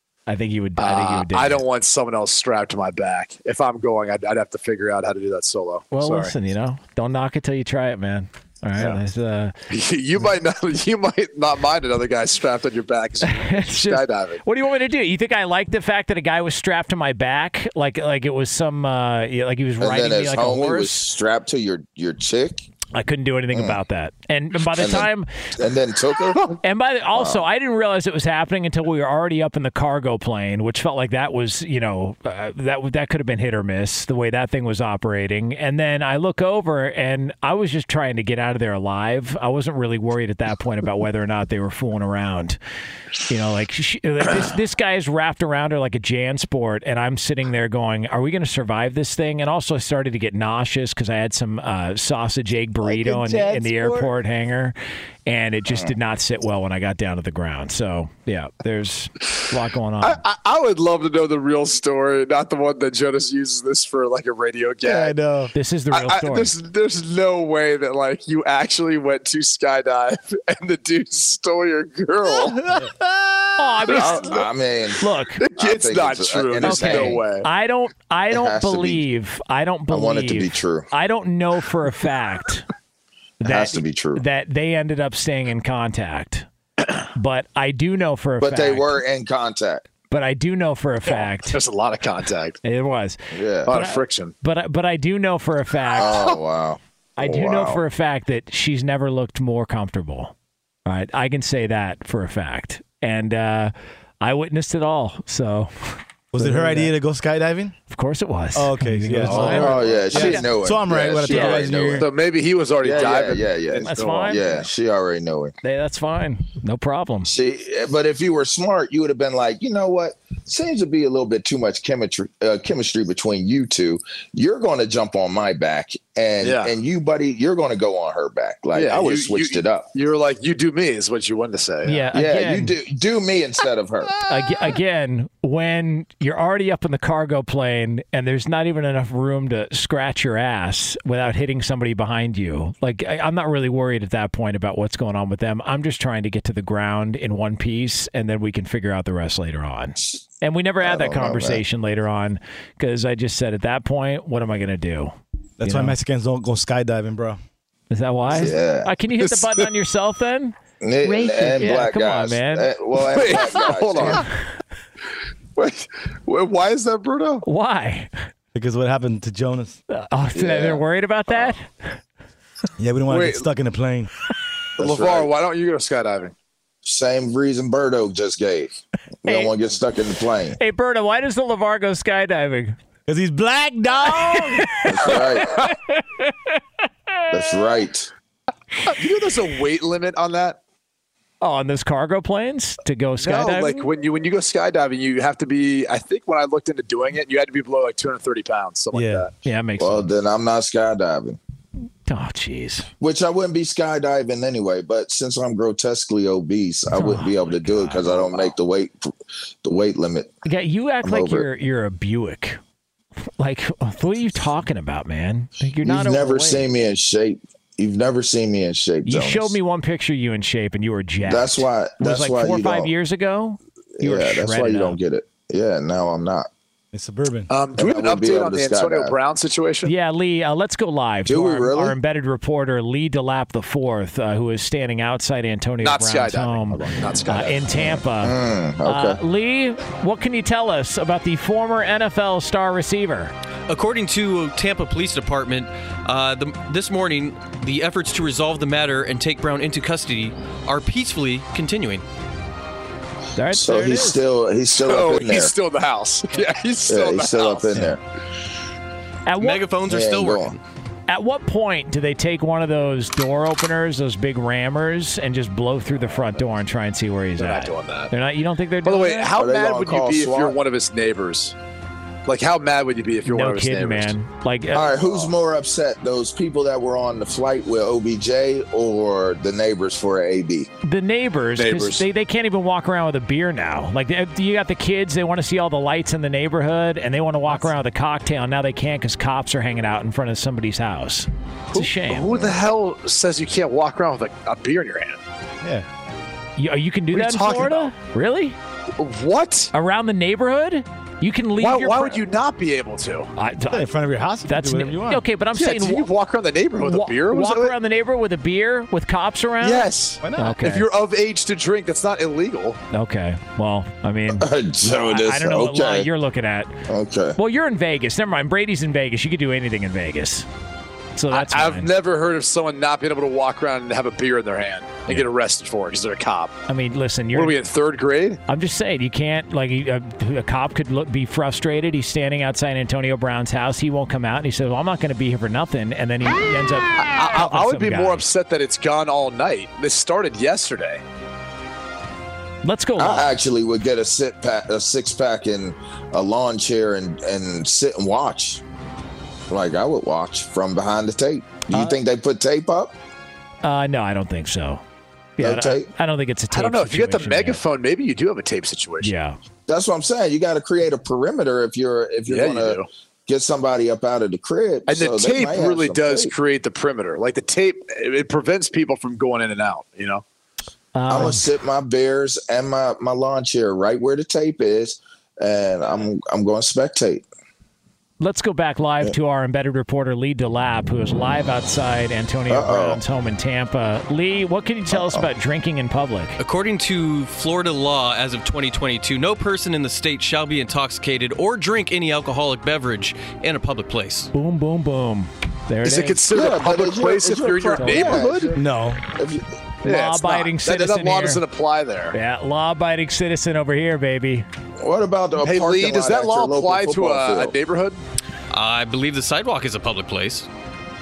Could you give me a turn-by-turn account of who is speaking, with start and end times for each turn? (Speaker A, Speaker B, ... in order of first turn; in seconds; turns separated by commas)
Speaker A: 0.3-1.6, Speaker B: 0.8-6.3, Speaker A: 5.9-9.5, Speaker B: 9.7-14.4, Speaker A: 13.2-21.1, Speaker C: 19.8-22.7, Speaker A: 22.9-25.3, Speaker C: 23.5-23.8, Speaker C: 24.7-26.4, Speaker A: 26.6-42.6, Speaker C: 27.1-27.4, Speaker A: 43.3-54.8, Speaker B: 52.9-53.8, Speaker A: 55.3-60.2, Speaker B: 60.0-65.2, Speaker A: 64.8-66.5, Speaker D: 65.2-65.5, Speaker B: 65.9-73.3, Speaker A: 73.6-74.5, Speaker B: 73.9-74.3, Speaker C: 73.9-75.0, Speaker A: 75.0-75.4, Speaker B: 75.4-77.5, Speaker C: 75.6-77.2, Speaker A: 76.6-82.7, Speaker C: 78.3-79.0, Speaker C: 79.9-80.9, Speaker C: 83.4-84.2, Speaker A: 83.4-86.5, Speaker A: 87.2-89.0, Speaker C: 88.4-89.9, Speaker A: 90.1-91.6, Speaker B: 91.1-92.6, Speaker A: 92.6-96.3, Speaker C: 93.3-93.7, Speaker B: 93.7-94.3, Speaker C: 96.0-97.8, Speaker A: 97.2-100.3, Speaker A: 100.9-107.0, Speaker D: 106.3-107.8, Speaker A: 107.9-110.5, Speaker D: 108.5-112.1, Speaker C: 109.4-112.1, Speaker B: 111.3-114.6, Speaker A: 111.3-111.6, Speaker C: 112.8-115.5, Speaker A: 113.8-114.5, Speaker A: 115.6-117.3, Speaker C: 117.2-129.9, Speaker B: 126.4-126.7, Speaker B: 128.7-132.1, Speaker A: 131.8-132.7, Speaker C: 132.1-134.1, Speaker A: 134.3-156.0, Speaker C: 150.0-150.2, Speaker C: 150.8-151.6, Speaker D: 155.6-157.4, Speaker A: 157.9-160.6, Speaker C: 158.3-158.9, Speaker B: 159.2-159.7, Speaker C: 160.8-164.2, Speaker A: 161.1-162.7, Speaker B: 163.0-164.3, Speaker B: 165.6-167.4, Speaker A: 167.4-168.1, Speaker D: 168.5-169.8, Speaker A: 169.9-171.7, Speaker C: 170.3-171.6, Speaker D: 172.8-174.1, Speaker B: 173.1-173.5, Speaker C: 174.8-175.3, Speaker B: 174.8-176.3, Speaker C: 176.8-180.6, Speaker A: 179.3-179.5, Speaker A: 180.6-182.8, Speaker D: 183.1-184.8, Speaker A: 184.0-186.6, Speaker C: 184.9-185.7, Speaker C: 187.3-188.1, Speaker B: 189.0-190.6, Speaker A: 191.4-193.9, Speaker B: 193.2-199.3, Speaker D: 198.9-199.3, Speaker A: 199.4-200.1, Speaker C: 199.8-201.4, Speaker A: 202.1-202.9, Speaker C: 203.0-209.1, Speaker A: 206.9-208.5, Speaker C: 209.6-210.3, Speaker A: 210.4-212.6, Speaker C: 211.0-211.5, Speaker A: 213.4-216.7, Speaker C: 215.8-219.6, Speaker A: 219.1-225.0, Speaker C: 221.2-222.9, Speaker C: 224.0-226.5, Speaker D: 226.9-227.5, Speaker B: 227.5-229.9, Speaker C: 227.8-229.2, Speaker A: 229.8-243.3, Speaker C: 231.3-232.0, Speaker B: 235.8-237.7, Speaker C: 237.8-239.2, Speaker E: 243.7-252.0, Speaker A: 253.4-254.2, Speaker C: 253.5-255.5, Speaker B: 254.8-257.9, Speaker C: 256.9-258.0, Speaker A: 259.3-259.6, Speaker E: 259.4-260.6, Speaker C: 259.9-260.6, Speaker A: 261.1-269.3, Speaker B: 267.4-268.1, Speaker B: 268.8-271.6, Speaker C: 269.3-270.6, Speaker B: 272.3-274.1, Speaker A: 273.3-275.0, Speaker C: 274.7-280.7, Speaker A: 280.8-292.6, Speaker B: 281.6-282.0, Speaker B: 291.7-295.2, Speaker D: 295.6-295.9, Speaker A: 296.6-298.6, Speaker B: 297.1-297.9, Speaker B: 299.0-299.7, Speaker A: 299.7-302.2, Speaker B: 301.6-303.3, Speaker A: 303.4-303.9, Speaker D: 303.7-305.2, Speaker A: 304.4-306.1, Speaker B: 305.6-307.7, Speaker A: 306.8-310.9, Speaker B: 309.6-312.8, Speaker D: 310.2-310.6, Speaker A: 312.9-316.8, Speaker C: 314.3-316.1, Speaker C: 316.9-317.4, Speaker A: 317.4-320.5, Speaker A: 321.2-321.9, Speaker B: 321.3-326.5, Speaker A: 326.7-327.6, Speaker B: 327.3-328.4, Speaker A: 328.5-338.2, Speaker B: 337.0-341.0, Speaker A: 342.6-343.3, Speaker C: 343.0-348.6, Speaker C: 349.5-352.9, Speaker A: 351.7-352.0, Speaker A: 353.6-354.8, Speaker A: 355.4-357.6, Speaker C: 355.4-355.9, Speaker B: 356.5-359.1, Speaker A: 359.0-359.4, Speaker C: 359.7-366.3, Speaker B: 362.3-362.9, Speaker B: 364.9-370.2, Speaker A: 370.9-371.4, Speaker C: 371.1-377.2, Speaker A: 378.2-386.4, Speaker C: 382.5-383.0, Speaker C: 384.9-385.3, Speaker E: 386.4-394.3, Speaker A: 394.3-396.3, Speaker B: 395.9-398.5, Speaker C: 396.3-399.5, Speaker A: 397.8-398.2, Speaker D: 398.5-399.0, Speaker A: 399.8-401.4, Speaker B: 399.9-402.2, Speaker A: 402.1-404.5, Speaker C: 404.8-407.5, Speaker B: 405.4-408.0, Speaker E: 408.5-410.5